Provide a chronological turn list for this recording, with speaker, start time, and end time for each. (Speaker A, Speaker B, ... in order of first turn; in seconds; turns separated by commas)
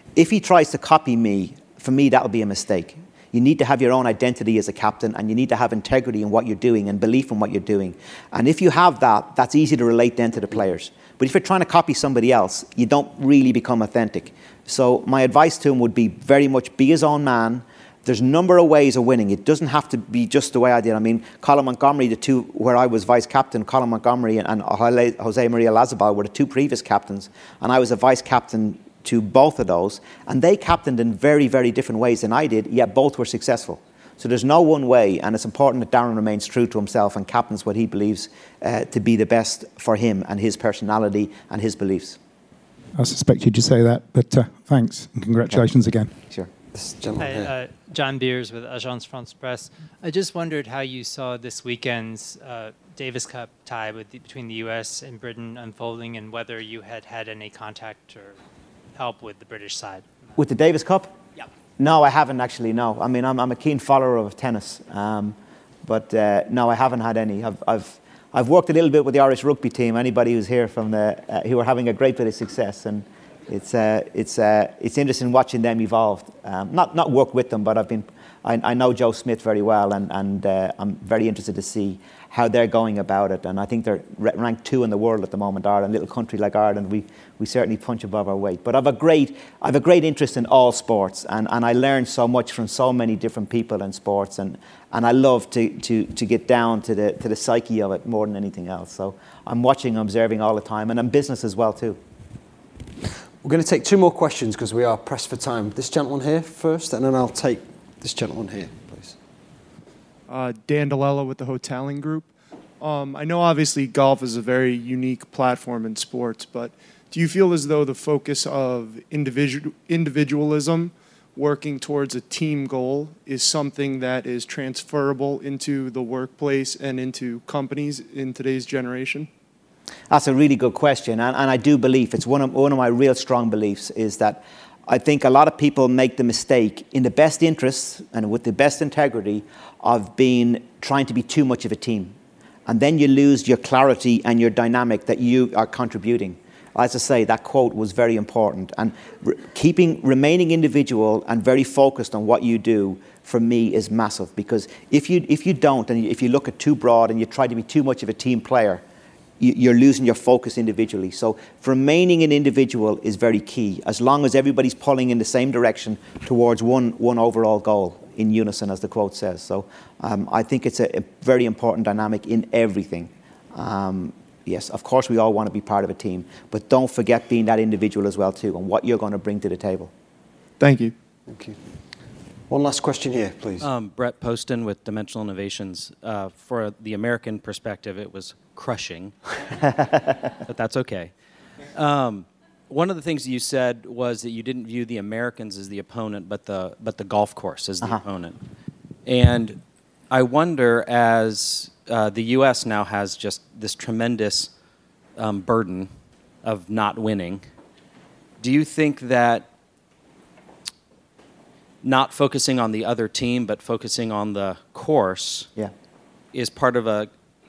Speaker A: 0.1-42.2, Speaker B: 43.0-46.1, Speaker C: 46.7-47.5, Speaker D: 47.2-58.4, Speaker D: 58.9-60.1, Speaker A: 60.4-61.1, Speaker A: 61.8-102.0, Speaker C: 103.4-109.2, Speaker E: 110.3-129.3, Speaker A: 130.1-142.1, Speaker A: 142.7-158.8, Speaker A: 159.4-179.9, Speaker E: 180.6-180.9, Speaker C: 181.3-181.6, Speaker C: 182.5-183.7, Speaker F: 183.6-189.7, Speaker F: 190.5-191.1, Speaker F: 191.7-198.4, Speaker F: 199.1-204.5, Speaker F: 205.2-205.9, Speaker F: 206.4-207.4, Speaker F: 208.4-209.5, Speaker F: 211.8-215.5, Speaker F: 216.3-217.1